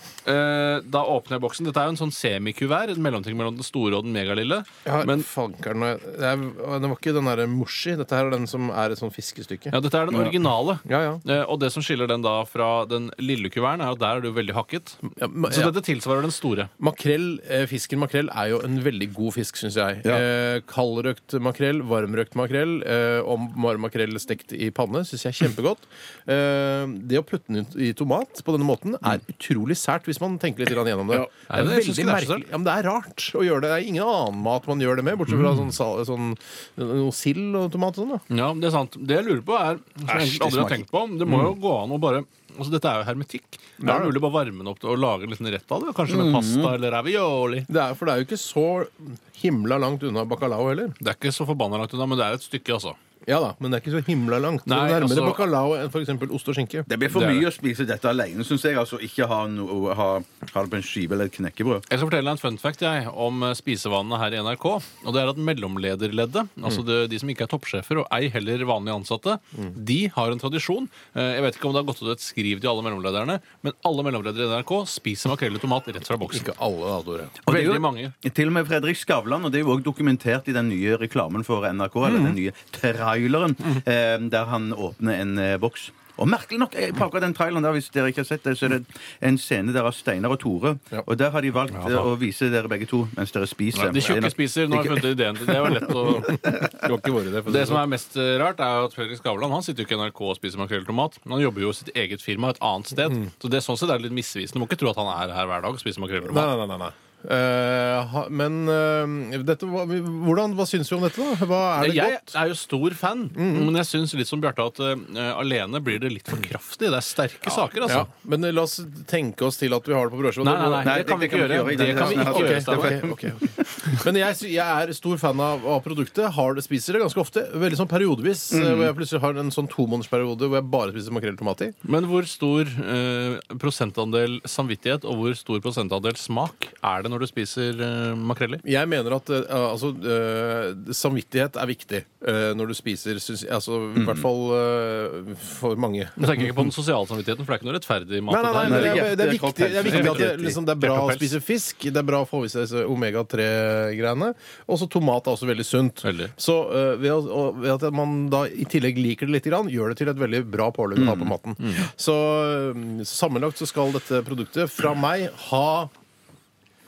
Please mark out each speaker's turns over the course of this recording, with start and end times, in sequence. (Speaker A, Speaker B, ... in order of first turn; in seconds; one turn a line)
Speaker A: 0.2-5.3
Speaker B: 4.8-10.3
Speaker A: 9.7-16.7
Speaker B: 10.8-11.2
Speaker B: 15.1-15.7
Speaker B: 16.8-38.2
Speaker A: 31.1-32.5
Speaker A: 35.3-35.7
Speaker A: 38.3-47.7
Speaker B: 40.1-41.5
Speaker B: 43.8-44.1
Speaker C: 46.1-46.7
Speaker B: 47.7-51.0
Speaker A: 51.0-53.0
Speaker B: 53.2-56.9
Speaker A: 54.7-55.5
Speaker C: 56.9-61.8
Speaker A: 57.1-57.5
Speaker A: 61.9-76.5
Speaker B: 76.3-77.4
Speaker C: 77.4-95.1
Speaker A: 77.5-78.1
Speaker B: 82.0-82.4
Speaker A: 91.7-92.0
Speaker A: 93.7-96.6
Speaker B: 95.5-97.8
Speaker A: 97.5-106.5
Speaker B: 106.2-112.3
Speaker A: 111.8-118.1
Speaker B: 113.3-113.7
Speaker B: 117.5-120.9
Speaker A: 120.4-123.1
Speaker C: 120.8-124.0
Speaker B: 121.8-131.7
Speaker C: 128.5-128.9
Speaker A: 131.8-138.6
Speaker B: 138.6-146.4
Speaker C: 143.9-144.2
Speaker A: 146.2-149.2
Speaker B: 148.3-165.9
Speaker C: 148.6-150.6
Speaker A: 149.8-151.3
Speaker A: 156.0-156.3
Speaker C: 160.9-161.3
Speaker A: 161.6-161.9